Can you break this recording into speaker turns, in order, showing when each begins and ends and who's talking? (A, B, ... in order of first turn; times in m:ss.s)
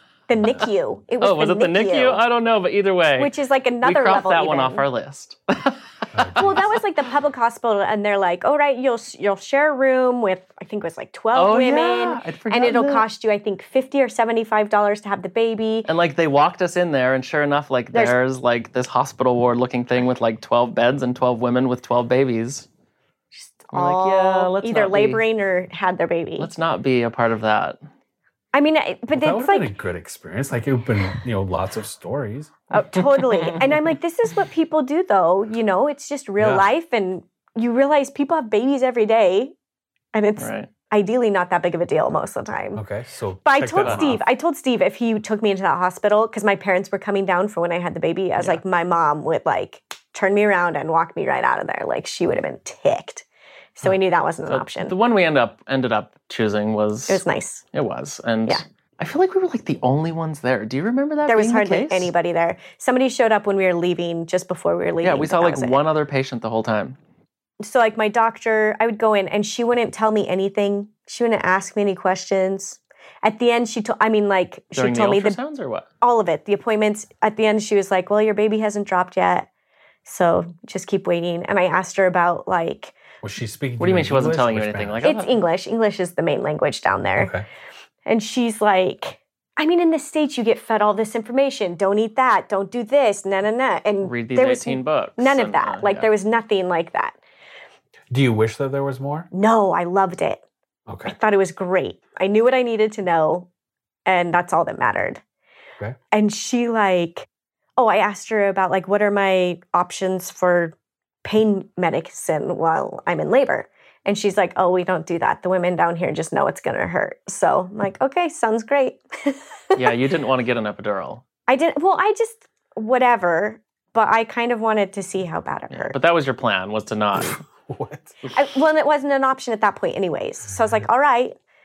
0:00.3-0:02.2 A
0:01.2-0:06.8 B
0:03.2-0:04.9 A
0:06.1-0:06.7 C
0:06.4-0:15.9 A
0:11.3-0:13.0 B
0:15.8-0:22.7 B
0:23.3-0:26.5 A
0:23.7-0:25.2 B
0:26.4-0:27.8 B
0:28.5-0:29.7 A
0:29.1-0:32.5 C
0:32.7-0:39.5 A
0:33.0-0:33.8 B
0:36.4-0:36.7 C
0:40.1-0:42.8 A
0:40.4-0:40.7 B
0:42.8-0:44.2 C
0:43.4-0:53.2 A
0:43.8-0:44.1 B
0:53.8-0:54.9 A
0:54.5-0:57.2 B
0:57.1-0:57.6 A
0:57.7-1:02.1 B
1:01.3-1:05.8 A
1:05.0-1:07.0 B
1:07.6-1:15.4 A
1:14.8-1:15.9 B
1:16.0-1:19.5 A
1:20.1-1:23.0 A
1:23.2-1:25.0 C
1:23.8-1:25.4 B
1:25.0-1:27.3 A
1:27.2-1:27.4 C
1:28.1-1:37.2 A
1:34.0-1:36.1 B
1:38.1-1:39.3 C
1:39.3-1:40.4 A
1:40.9-1:41.2 C
1:41.0-1:43.5 A
1:44.1-1:45.2 A
1:46.1-2:00.0 A
1:59.8-2:01.2 B
2:01.5-2:06.0 A
2:05.7-2:07.4 B
2:07.2-2:08.2 C
2:08.3-2:11.3 A